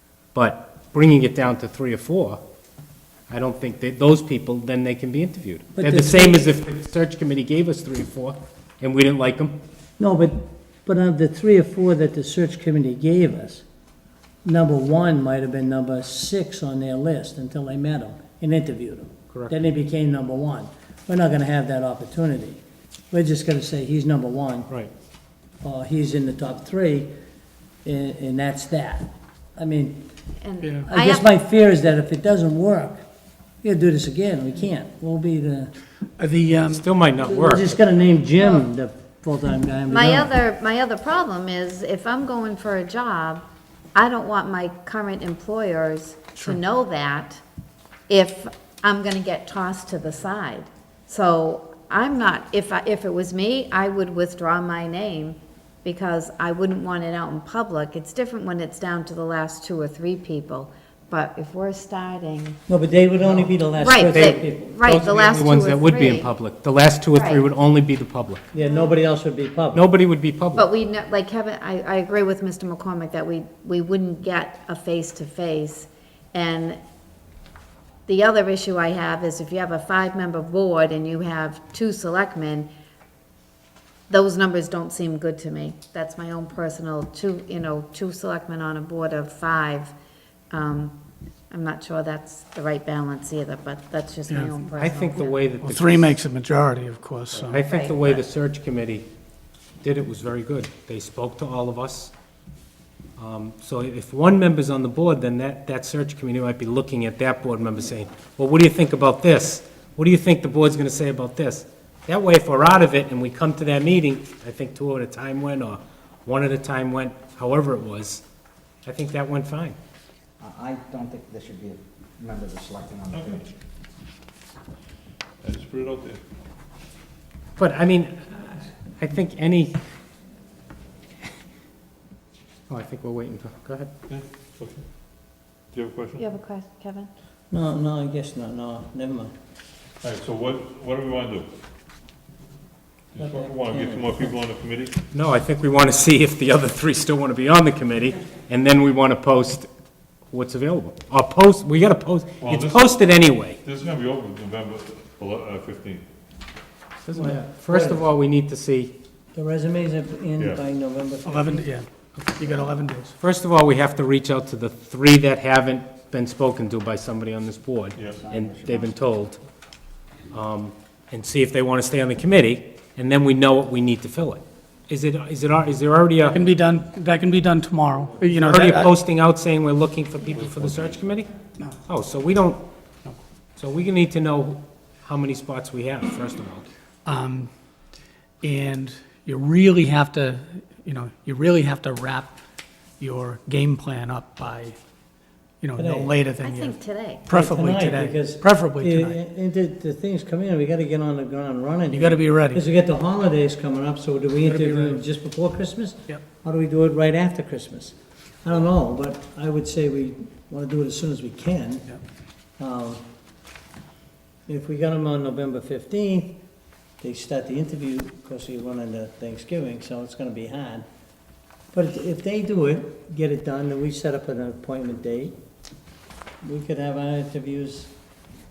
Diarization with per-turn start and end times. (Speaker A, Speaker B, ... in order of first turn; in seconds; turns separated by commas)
Speaker A: 0.3-2.4, Speaker A: 3.3-9.6, Speaker B: 5.8-6.5, Speaker B: 10.0-13.7, Speaker B: 14.4-24.7, Speaker B: 25.6-27.1, Speaker B: 27.9-30.0, Speaker C: 30.4-31.2, Speaker B: 30.9-33.0, Speaker B: 33.6-35.7, Speaker D: 36.2-36.9, Speaker A: 36.5-37.8, Speaker B: 37.2-40.3, Speaker C: 39.9-43.4, Speaker C: 44.0-47.4, Speaker C: 48.1-62.6, Speaker B: 62.7-64.8, Speaker C: 63.8-66.3, Speaker A: 64.2-68.4, Speaker C: 67.1-67.5, Speaker B: 68.5-69.8, Speaker C: 68.6-68.9, Speaker A: 69.7-70.7, Speaker C: 70.5-76.8, Speaker C: 78.1-82.7, Speaker C: 84.1-89.9, Speaker C: 90.5-91.0, Speaker C: 91.5-95.4, Speaker D: 94.3-94.6, Speaker A: 94.8-96.2, Speaker D: 95.6-97.6, Speaker A: 97.4-99.1, Speaker C: 97.6-98.2, Speaker A: 99.8-102.1, Speaker A: 103.2-118.2, Speaker A: 118.8-119.8, Speaker E: 120.4-123.5, Speaker F: 123.1-123.5, Speaker F: 125.4-126.2, Speaker A: 127.6-129.8, Speaker A: 132.7-133.9, Speaker F: 134.1-134.8, Speaker F: 135.7-136.2, Speaker C: 136.2-137.1, Speaker B: 137.5-139.3, Speaker F: 140.0-141.5, Speaker F: 143.1-145.0, Speaker B: 143.2-144.2, Speaker A: 145.1-149.7, Speaker A: 150.3-153.6, Speaker F: 152.4-156.0, Speaker A: 157.0-158.9, Speaker B: 157.1-158.1, Speaker B: 159.3-161.7, Speaker F: 160.4-160.6, Speaker D: 161.3-163.1, Speaker A: 163.2-169.4, Speaker F: 168.0-168.2, Speaker E: 168.0-168.9, Speaker A: 170.3-176.4, Speaker D: 176.3-178.9, Speaker A: 178.3-181.3, Speaker F: 180.4-181.1, Speaker A: 181.8-182.7, Speaker A: 183.6-186.7, Speaker D: 187.1-187.5, Speaker D: 188.4-192.3, Speaker D: 193.0-194.8, Speaker D: 195.6-199.2, Speaker B: 195.8-196.2, Speaker C: 196.4-197.3, Speaker B: 197.3-211.9, Speaker D: 201.9-202.6, Speaker D: 204.4-205.0, Speaker B: 212.6-213.0, Speaker B: 214.5-216.4, Speaker B: 217.0-220.8, Speaker B: 221.7-225.4, Speaker B: 226.4-227.9